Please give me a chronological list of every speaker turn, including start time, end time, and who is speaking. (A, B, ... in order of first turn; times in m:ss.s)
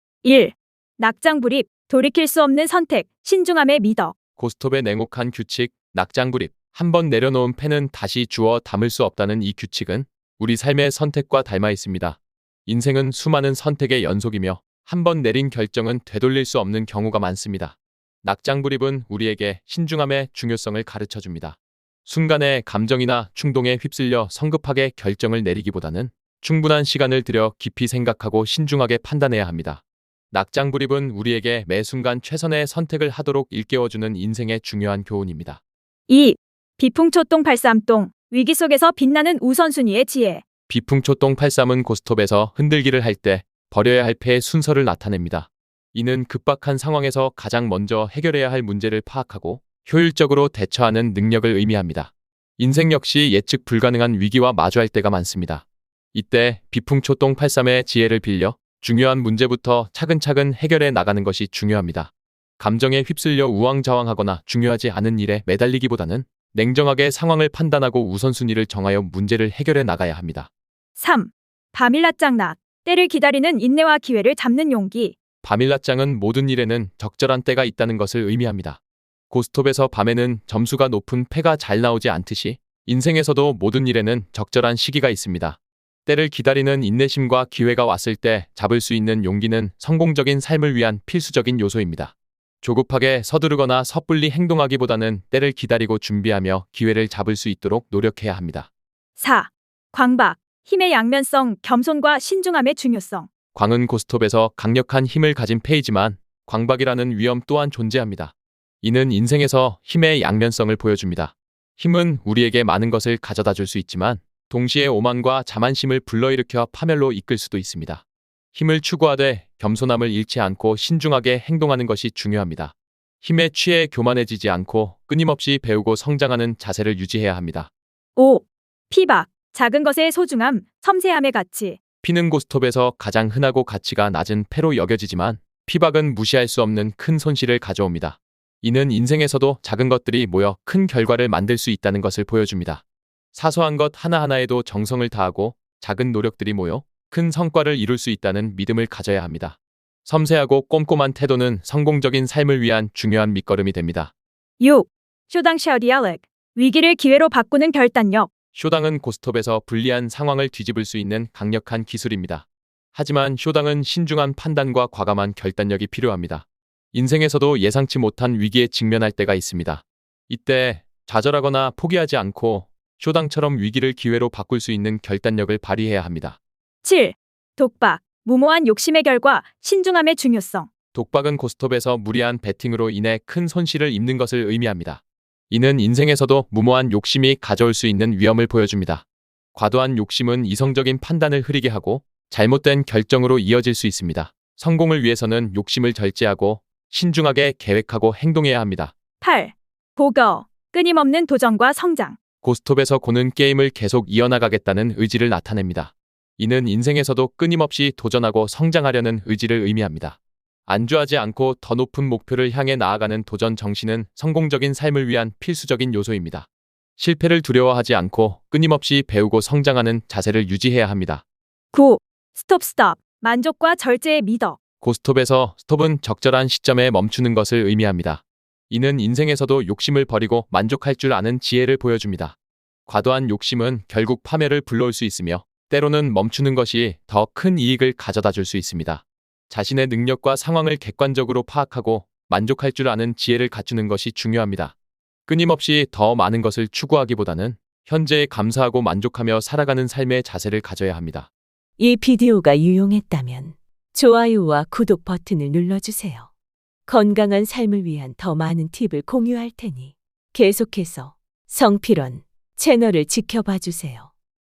0:00.2-0:04.1 A
0:04.4-0:35.6 B
0:36.1-0:40.4 A
0:40.7-1:10.5 B
1:11.0-1:15.2 A
1:15.4-1:38.7 B
1:39.2-1:43.3 A
1:43.5-2:07.7 B
2:08.2-2:11.8 A
2:12.0-2:22.8 B
2:23.3-2:34.1 B
2:34.6-2:38.3 A
2:38.5-2:56.4 B
2:56.8-3:00.7 A
3:00.9-3:18.9 B
3:19.2-3:22.2 A
3:22.4-3:41.2 B
3:41.7-3:44.6 A
3:44.8-3:52.4 B
3:52.9-4:04.7 B
4:05.3-4:11.3 B
4:11.8-4:16.3 C
4:16.9-4:24.1 C